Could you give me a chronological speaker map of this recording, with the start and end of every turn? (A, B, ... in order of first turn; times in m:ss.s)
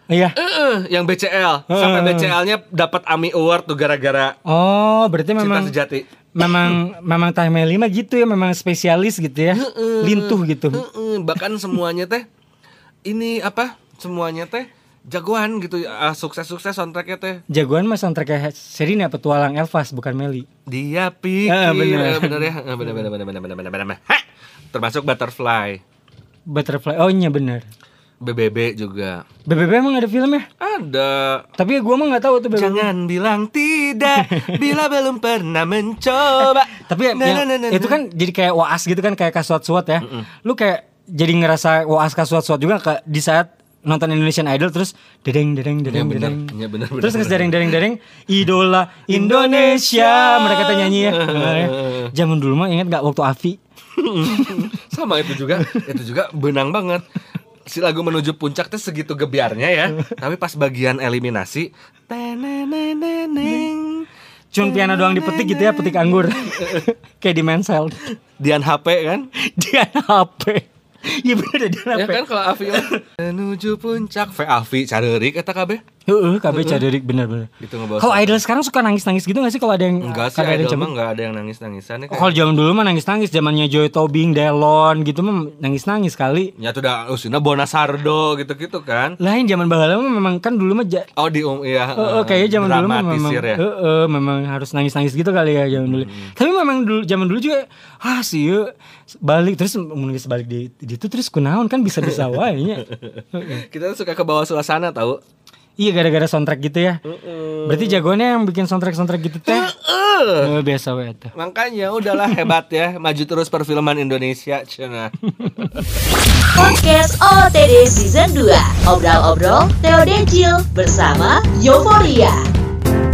0:00.4-0:04.4 A
0:01.7-0:02.3 B
0:04.4-0:05.7 B
0:05.4-0:06.8 A
0:06.3-0:10.8 B
0:09.5-0:12.2 A
0:13.0-0:17.4 A
0:17.5-0:20.5 B
0:20.7-0:25.8 A
0:21.4-0:22.5 B
0:26.5-0:27.7 B
0:28.2-0:29.2 A
0:29.5-0:30.5 B
0:30.6-0:31.4 A
0:31.6-0:32.9 B
0:32.5-0:38.0 A
0:34.2-0:34.6 B
0:36.4-0:53.6 B
0:45.8-0:47.8 A
0:49.1-0:52.1 A
0:54.0-0:57.0 A
0:54.3-0:54.7 B
0:55.6-0:55.9 B
0:57.6-1:04.1 A
1:04.5-1:08.1 B
1:04.6-1:06.8 A
1:08.4-1:09.3 A
1:09.4-1:13.0 B
1:11.9-1:15.8 A
1:16.1-1:20.9 B
1:16.5-1:16.8 A
1:17.6-1:18.4 A
1:20.0-1:22.4 A
1:22.1-1:26.5 B
1:26.6-1:29.2 A
1:29.2-1:31.1 B
1:31.2-1:33.6 A
1:32.0-1:38.7 B
1:35.8-1:36.3 A
1:39.2-1:43.6 B
1:42.0-1:42.3 A
1:42.8-1:45.2 A
1:45.8-1:47.0 B
1:47.0-1:48.0 A
1:47.6-1:49.7 B
1:49.4-1:50.5 A
1:50.4-1:51.3 B
1:51.3-1:55.6 A
1:52.1-1:52.4 B
1:55.2-1:55.8 B
1:56.5-2:02.4 C